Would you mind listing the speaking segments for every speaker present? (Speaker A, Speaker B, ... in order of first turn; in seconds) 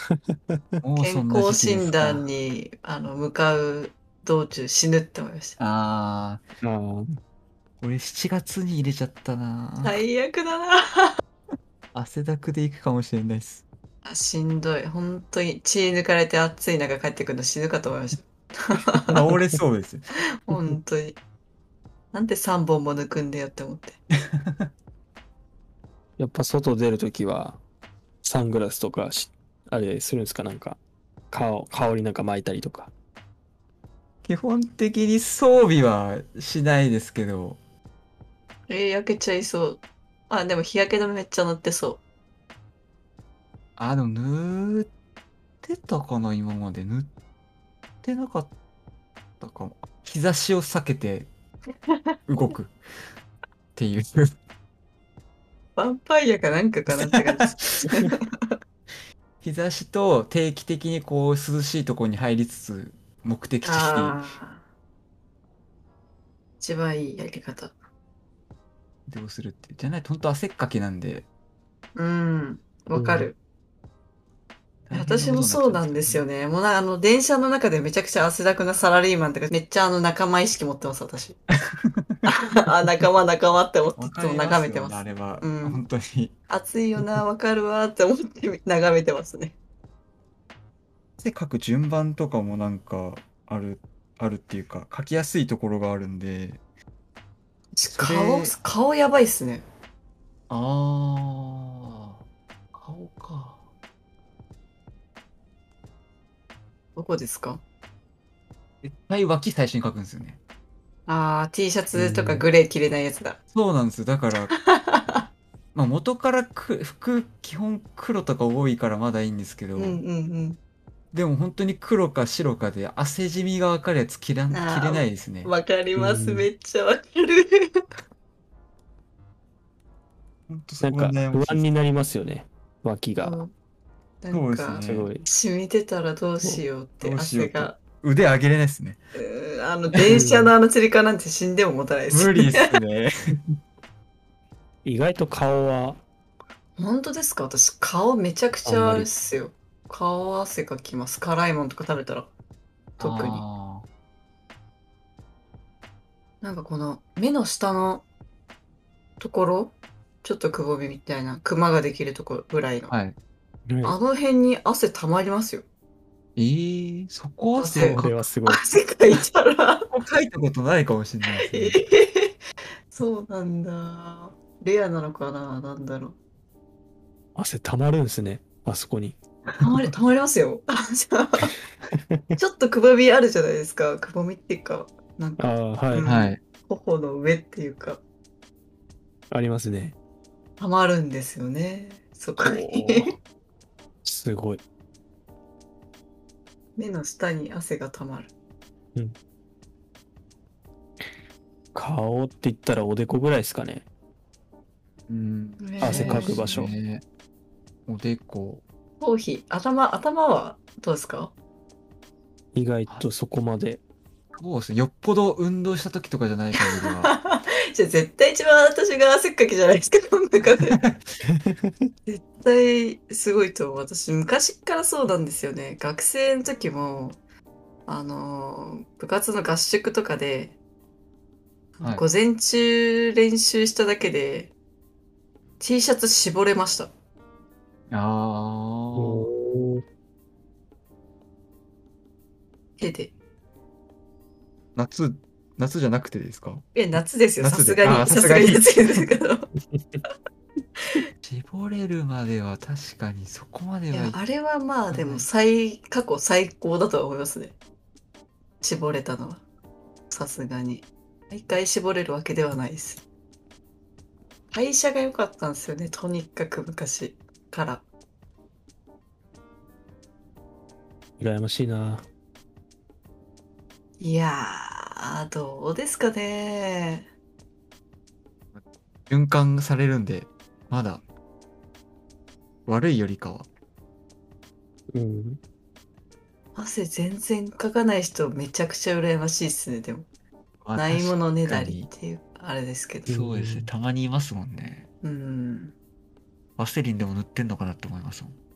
Speaker A: 0.8-2.3, 5.6-6.5, 7.8-10.0, 11.9-13.7, 19.1-20.1, 34.2-37.6, 43.8-44.9, 45.6-47.1, 48.0-48.5, 49.4-51.3, 52.3-52.8, 53.8-54.4, 57.0-58.1, 59.4-64.2, 69.1-71.3, 74.9-76.3, 81.9-82.2, 84.0-86.3, 91.2-96.6, 97.9-98.5, 100.5-103.7, 108.8-110.4, 112.0-112.4, 113.5-114.5, 115.8-120.0, 121.1-125.5, 130.5-131.6, 134.3-135.1, 137.0-139.0, 142.1-143.1, 153.0-153.9, 162.9-163.2, 166.4-168.2, 169.9-171.8, 179.5-179.8, 186.0-186.4, 205.1-207.0, 207.9-208.6, 214.4-217.1, 237.9-239.3, 244.8-246.7, 247.4-249.0, 251.2-254.2, 254.9-255.3, 278.5-281.0, 282.7-283.5, 290.6-291.9, 293.1-294.9, 296.6-298.4
Speaker B: 1.0-5.6, 9.8-11.1, 14.0-19.1, 20.5-21.2, 22.1-24.0, 38.7-42.0, 55.8-58.5, 63.6-64.6, 66.6-67.7, 72.0-73.4, 74.9-81.4, 82.3-85.8, 86.5-89.6, 97.8-99.7, 107.0-107.6, 111.1-113.4, 114.5-115.3, 119.8-120.6, 124.5-127.7, 133.2-133.5, 134.2-137.8, 139.2-142.7, 146.8-152.3, 153.0-153.4, 156.4-158.1, 159.2-162.9, 163.8-165.7, 167.6-169.9, 171.3-172.3, 172.9-176.2, 179.6-181.5, 182.4-188.0, 190.6-193.1, 196.8-198.3, 205.6-206.7, 209.0-211.3, 216.6-220.8, 222.1-227.2, 227.9-230.6, 231.8-234.5, 235.6-236.9, 242.8-243.1, 246.7-249.5, 253.9-257.6, 258.6-259.4, 260.1-263.0, 264.5-267.9, 274.0-277.1, 286.6-290.1, 290.8-293.1, 295.0-295.8
Speaker C: 6.6-7.1, 20.5-20.8, 26.2-27.6, 28.2-30.8, 31.3-32.9, 72.9-73.3, 126.0-126.5, 130.8-133.4, 134.8-135.3, 140.1-140.6, 144.8-146.0, 148.7-149.1, 163.7-164.0, 167.8-168.6, 177.3-179.2, 181.9-182.2, 185.4-186.1, 189.3-189.9, 192.4-193.2, 194.1-194.6, 201.8-203.8, 205.8-206.7, 212.5-213.8, 239.0-239.8, 249.7-250.0, 271.2-272.1, 284.9-285.4, 293.1-293.7